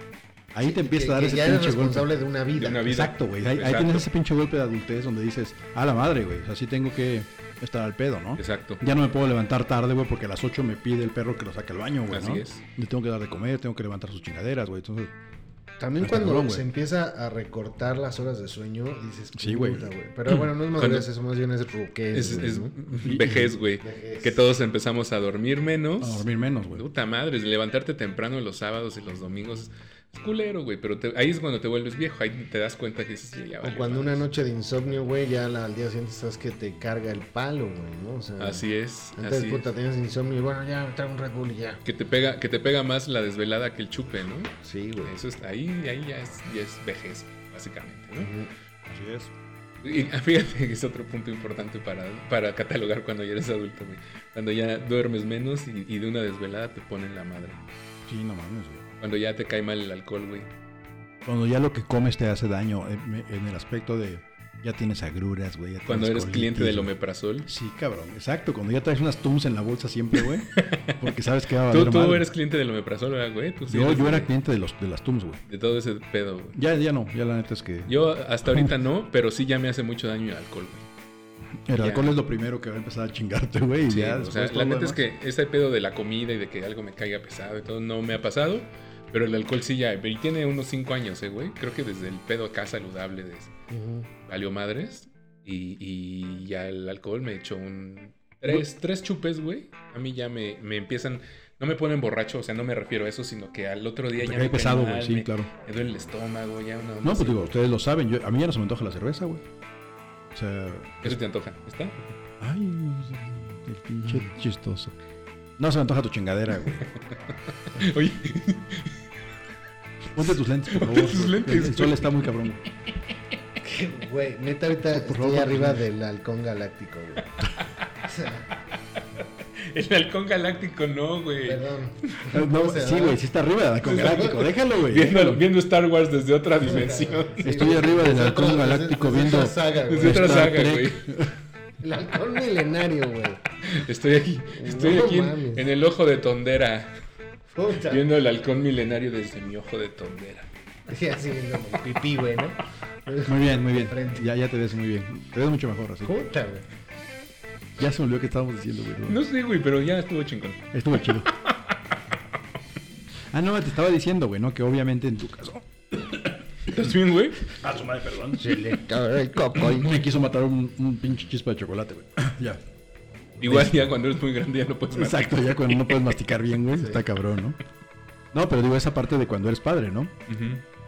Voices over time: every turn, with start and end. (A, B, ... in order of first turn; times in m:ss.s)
0:00.5-0:02.1 A
0:00.6-0:02.9 B
0:02.6-0:04.0 C
0:02.9-0:15.1 A
0:08.4-0:08.8 C
0:12.1-0:12.6 C
0:15.8-0:22.7 B
0:16.0-0:16.6 A
0:19.3-0:19.9 A
0:20.3-0:21.1 C
0:22.1-0:34.2 C
0:23.0-0:23.5 A
0:23.8-0:24.4 B
0:26.0-0:26.8 A
0:33.6-0:41.8 B
0:38.4-0:39.7 C
0:41.8-0:48.3 C
0:44.6-0:45.2 B
0:48.2-0:48.5 B
0:48.9-0:49.3 A
0:49.8-0:57.6 C
0:58.1-0:58.8 A
0:59.0-1:00.5 C
1:01.2-1:06.9 A
1:05.8-1:07.5 C
1:07.4-1:12.3 A
1:10.5-1:10.9 C
1:11.6-1:14.3 C
1:13.7-1:15.4 A
1:15.5-1:16.6 C
1:16.6-1:17.9 A
1:17.9-1:20.8 C
1:21.7-1:25.0 A
1:21.8-1:22.2 C
1:23.9-1:33.5 C
1:33.7-1:34.1 B
1:34.2-1:47.4 C
1:44.2-1:45.5 A
1:47.0-1:49.4 A
1:50.3-1:51.2 A
1:51.0-1:52.1 C
1:52.4-1:55.0 A
1:55.6-1:56.8 A
1:57.7-1:59.0 C
2:00.1-2:02.6 A
2:00.2-2:02.1 C
2:03.6-2:07.2 B
2:04.9-2:05.8 A
2:08.0-2:08.5 B
2:09.6-2:12.3 C
2:11.4-2:13.2 B
2:12.3-2:15.4 A
2:13.8-2:17.5 C
2:16.6-2:20.5 B
2:17.4-2:21.3 A
2:19.9-2:21.1 C
2:21.8-2:23.4 B
2:23.6-2:26.9 C
2:24.5-2:25.6 B
2:27.5-2:28.1 B
2:27.9-2:30.5 C
2:30.9-2:34.2 B
2:33.2-2:36.1 A
2:36.0-2:36.6 B
2:37.8-2:39.2 A
2:39.1-2:41.6 C
2:40.7-2:41.3 A
2:43.3-2:45.6 A
2:46.6-2:47.5 C
2:47.5-2:48.7 A
2:48.4-2:49.9 B
2:49.8-2:52.6 A
2:53.4-2:56.2 C
2:53.4-2:53.9 A
2:54.9-2:57.6 A
2:58.3-3:00.1 A
3:00.3-3:00.6 C